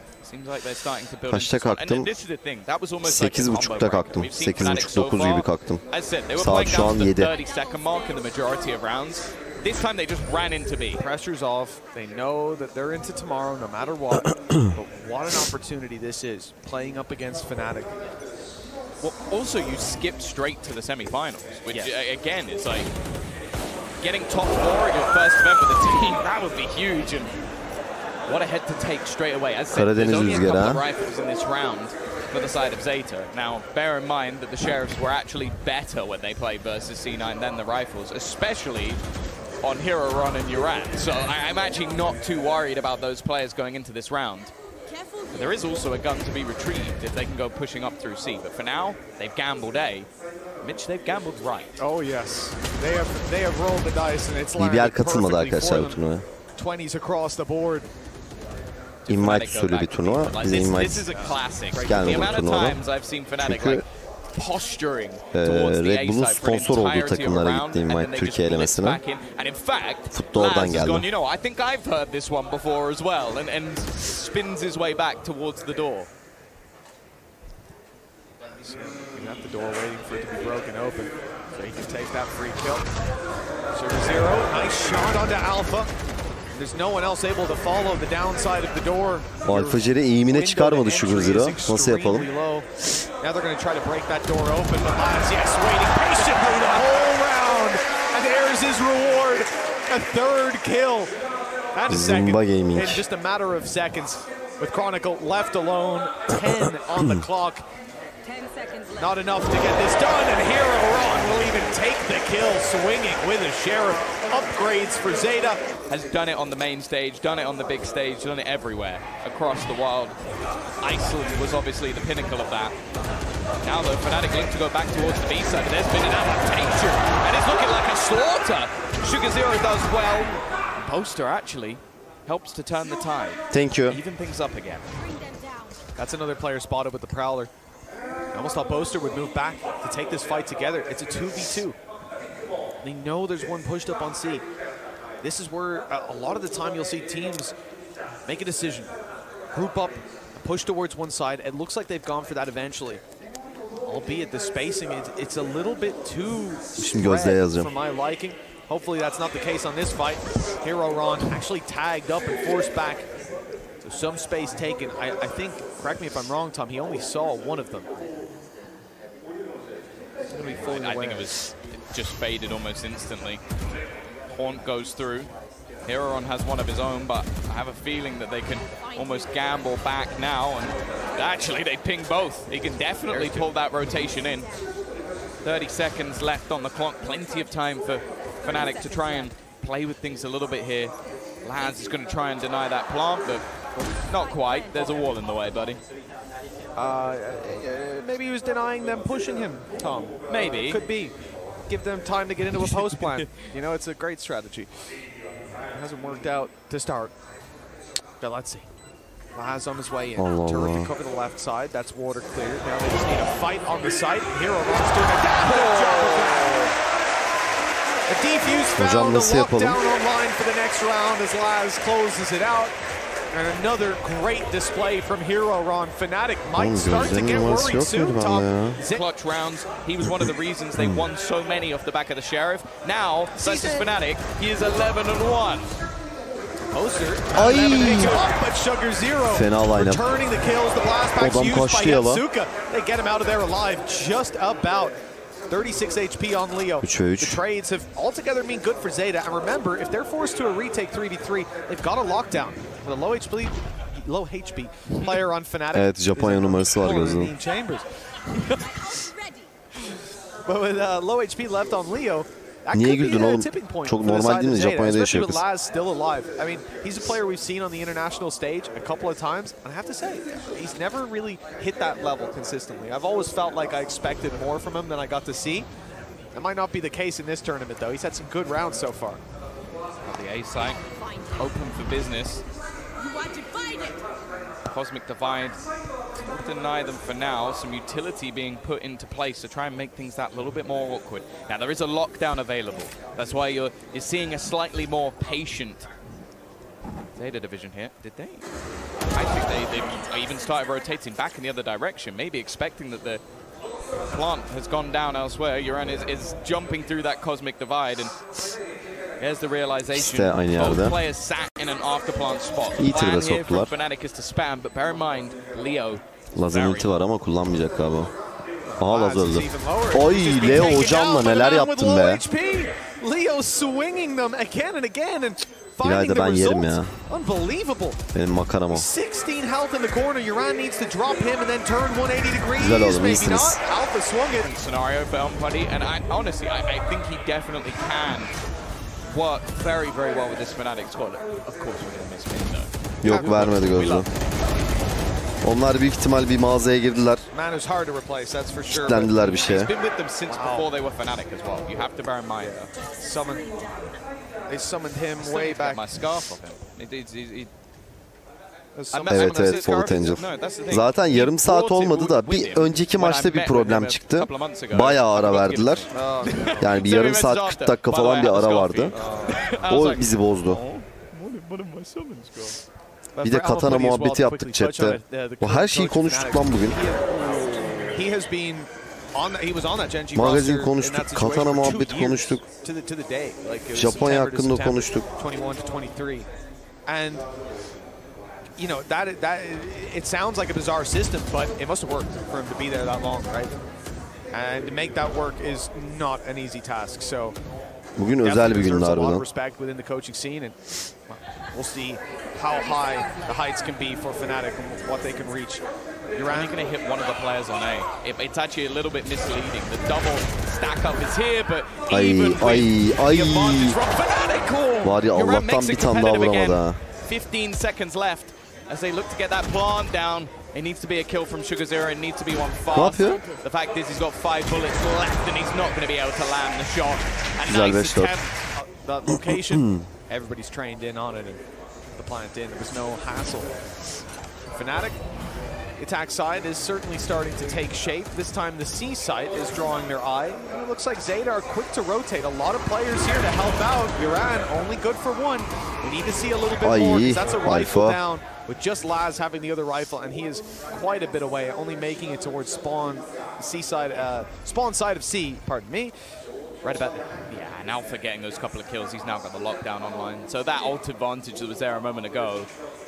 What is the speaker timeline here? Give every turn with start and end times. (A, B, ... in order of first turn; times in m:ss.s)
0:00.2-0:11.0 A
0:01.3-0:02.1 B
0:03.0-0:05.8 B
0:06.4-0:07.4 B
0:11.0-0:18.0 C
0:19.0-0:22.9 A
0:24.0-0:27.3 A
0:28.3-0:39.0 A
0:29.7-0:30.8 B
0:39.6-0:44.5 A
0:45.3-0:50.1 A
0:50.6-0:51.8 A
0:51.8-0:56.0 C
0:54.6-0:56.2 B
0:56.6-0:57.9 C
0:59.0-1:16.1 A
0:59.1-1:01.1 B
1:01.1-1:02.4 C
1:01.8-1:02.8 B
1:03.4-1:03.8 B
1:05.3-1:09.0 B
1:10.1-1:11.1 B
1:18.6-1:22.9 C
1:23.7-1:25.9 C
1:26.6-1:41.1 C
1:29.4-1:32.3 B
1:41.7-1:47.6 C
1:41.9-1:43.0 B
1:46.5-1:47.2 B
1:48.2-1:49.1 D
1:49.0-1:55.6 C
1:55.9-2:00.2 A
2:00.8-2:02.8 A
2:03.6-2:15.0 A
2:13.5-2:14.0 B
2:15.3-2:15.6 D
2:16.0-2:17.5 C
2:18.3-2:21.8 C
2:22.8-2:24.4 C
2:25.2-2:27.5 C
2:28.3-2:28.9 C
2:29.5-2:33.0 C
2:33.9-2:43.1 C
2:36.8-2:37.7 B
2:43.8-2:47.9 C
2:50.3-2:53.4 A
2:50.4-2:51.3 C
2:54.3-2:55.3 A
2:55.8-3:04.5 A
3:03.1-3:03.5 C
3:05.4-3:13.5 A
3:14.0-3:15.8 A
3:16.8-3:21.1 C
3:20.3-3:20.8 A
3:21.7-3:24.7 C
3:22.7-3:23.3 A
3:25.7-3:27.1 C
3:28.2-3:28.7 C
3:29.3-3:36.7 C
3:30.2-3:30.9 B
3:35.4-3:36.7 A
3:38.1-3:42.8 C
3:38.8-3:39.8 B
3:43.3-3:49.0 C
3:46.6-3:48.8 B
3:48.9-3:55.7 A
3:50.0-3:51.1 B
3:53.4-3:53.9 C
3:56.7-4:05.0 C
3:57.4-3:58.2 B
3:59.3-4:00.0 B
4:01.2-4:02.2 B
4:05.5-4:19.0 C
4:06.8-4:07.4 B
4:15.7-4:17.3 B
4:19.8-4:35.7 C
4:22.7-4:25.4 B
4:36.3-4:39.2 C
4:40.0-4:40.8 A
4:40.9-4:41.3 D
4:41.4-4:42.4 A
4:43.0-4:44.0 D
4:44.7-4:45.6 A
4:46.2-4:55.9 A
4:57.2-4:58.5 A
4:59.1-5:03.2 A
5:04.1-5:08.2 A
5:09.2-5:17.0 A
5:09.9-5:11.0 B
5:12.8-5:13.7 B
5:16.4-5:18.1 B
5:18.8-5:28.0 C
5:18.8-5:22.2 B
5:25.8-5:26.9 B
5:28.1-5:28.9 B
5:28.7-5:34.5 C
5:32.6-5:33.6 B
5:34.4-5:38.3 A
5:39.1-5:44.1 A
5:43.0-5:44.1 B
5:43.0-5:43.5 C
5:45.4-5:47.2 B
5:47.3-5:49.3 C
5:48.7-5:49.7 B
5:49.2-5:52.7 A
5:50.3-5:50.7 C
5:53.0-5:53.7 C
5:54.5-5:56.0 C
5:55.2-5:57.5 A
5:58.8-5:59.6 C
5:58.9-6:12.6 A
5:59.1-6:05.9 B
6:05.9-6:06.6 C
6:06.6-6:09.0 B
6:08.9-6:09.5 C
6:09.6-6:10.6 B
6:13.2-6:17.2 C
6:13.2-6:16.8 B
6:17.9-6:26.3 C
6:20.2-6:22.4 B
6:23.7-6:25.1 B
6:26.9-6:27.3 C
6:28.6-6:33.6 C
6:34.3-6:37.4 C
6:38.0-6:39.2 B
6:38.2-6:45.6 C
6:46.2-6:46.6 C
6:46.3-7:08.1 A
6:51.9-6:53.8 B
6:54.8-6:56.8 B
7:02.7-7:03.2 B
7:07.5-7:08.1 B
7:07.7-7:11.4 C
7:09.1-7:09.9 B
7:12.0-7:13.5 C
7:14.5-7:15.0 C
7:15.8-7:36.0 C
7:26.6-7:28.0 B
7:36.6-7:37.1 C
7:37.3-7:42.5 A